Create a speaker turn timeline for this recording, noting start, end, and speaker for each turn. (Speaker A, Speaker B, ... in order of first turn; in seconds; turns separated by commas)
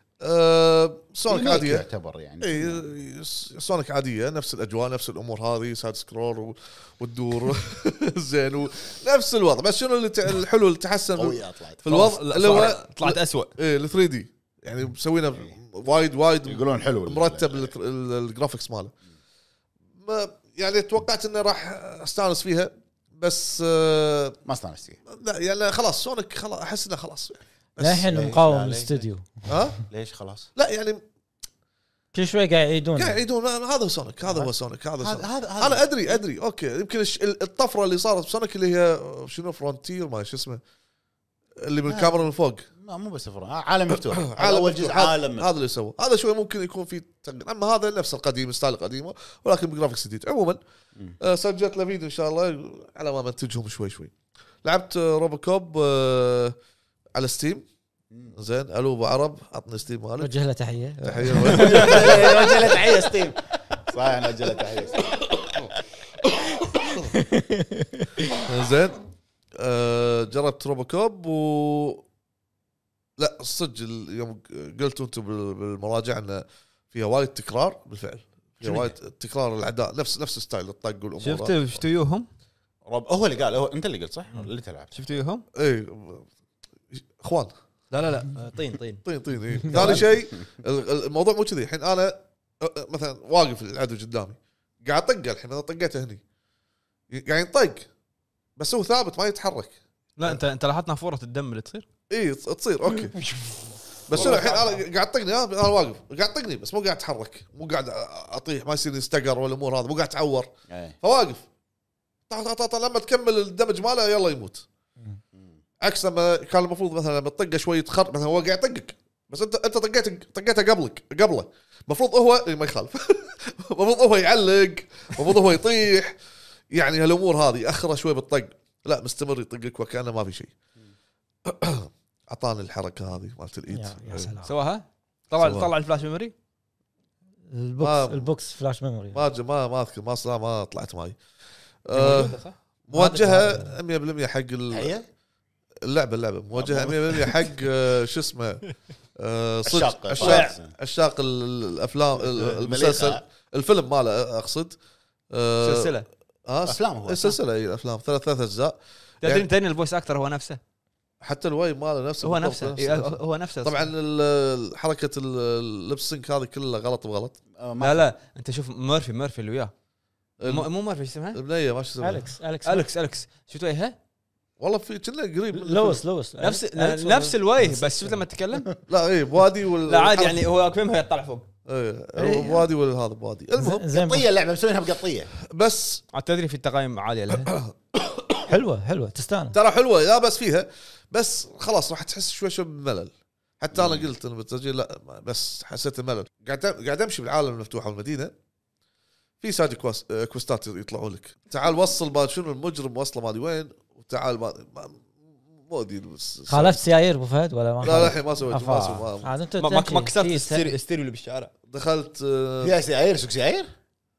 Speaker A: 0.2-1.9, Speaker B: 1.3-2.9, Speaker A: 2.4-18.9, Speaker B: 11.1-11.8, Speaker C: 11.8-13.5, Speaker B: 16.4-17.7, Speaker A: 20.0-24.4, Speaker B: 24.4-25.0, Speaker A: 25.1-28.1, Speaker D: 27.8-29.5, Speaker B: 28.1-29.1, Speaker A: 29.5-29.8, Speaker B: 29.9-30.5, Speaker A: 30.6-31.0, Speaker D: 32.1-33.2, Speaker A: 33.0-40.6, Speaker B: 35.0-36.2, Speaker A: 41.6-42.6, Speaker B: 41.9-42.2, Speaker B: 42.8-45.5, Speaker A: 44.1-50.6, Speaker A: 51.2-54.1, Speaker A: 54.6-56.5, Speaker A: 57.1-57.6, Speaker A: 58.4-60.3, Speaker D: 60.2-63.0, Speaker A: 61.0-62.2, Speaker B: 61.5-65.2, Speaker C: 61.5-62.3, Speaker D: 67.1-68.4, Speaker A: 68.4-69.0, Speaker A: 69.6-72.0, Speaker A: 73.2-81.5, Speaker C: 78.6-78.9, Speaker C: 81.2-82.3, Speaker B: 82.9-84.9, Speaker C: 84.3-85.4, Speaker A: 85.5-86.3, Speaker A: 86.9-87.5, Speaker C: 87.9-89.0, Speaker A: 89.0-96.2, Speaker C: 89.7-90.0, Speaker A: 97.1-97.9, Speaker A: 98.6-100.4, Speaker C: 100.2-101.8, Speaker A: 102.1-103.2, Speaker A: 104.1-110.5, Speaker C: 104.1-104.7, Speaker B: 110.7-111.0, Speaker A: 111.0-111.4, Speaker A: 112.3-114.6, Speaker A: 115.8-126.2, Speaker A: 126.7-130.5, Speaker A: 131.4-134.3, Speaker D: 133.7-134.5, Speaker C: 134.4-136.3, Speaker A: 135.4-135.7, Speaker D: 137.5-139.2, Speaker A: 137.8-138.3, Speaker A: 139.1-141.2, Speaker A: 141.8-144.9, Speaker C: 141.9-142.5, Speaker D: 142.9-143.7, Speaker B: 144.7-145.0, Speaker A: 145.8-154.8, Speaker B: 146.5-147.1, Speaker B: 149.6-150.7, Speaker C: 150.2-150.5, Speaker B: 152.4-153.2, Speaker A: 155.3-155.9, Speaker C: 155.6-156.1, Speaker A: 156.4-159.5, Speaker B: 156.6-157.4, Speaker C: 159.2-160.6, Speaker A: 161.2-167.4, Speaker C: 162.2-163.9, Speaker B: 167.6-168.0, Speaker C: 167.8-169.7, Speaker A: 170.4-170.7, Speaker C: 170.4-171.4, Speaker A: 171.3-172.3, Speaker D: 172.0-172.8, Speaker C: 172.6-173.9, Speaker A: 174.6-176.0, Speaker D: 175.5-178.2, Speaker C: 176.4-178.7, Speaker A: 178.9-180.4, Speaker C: 179.8-181.4, Speaker A: 181.7-183.8, Speaker D: 182.2-182.7, Speaker D: 183.6-184.2, Speaker B: 183.9-185.3, Speaker A: 185.5-186.0, Speaker C: 186.1-187.5, Speaker A: 187.4-188.4, Speaker D: 188.5-189.6, Speaker A: 189.5-198.3, Speaker B: 193.7-194.1, Speaker A: 199.4-205.1, Speaker A: 205.6-206.8, Speaker D: 206.5-210.7, Speaker A: 207.8-209.3, Speaker C: 209.6-211.5, Speaker A: 211.7-212.7, Speaker B: 212.6-213.7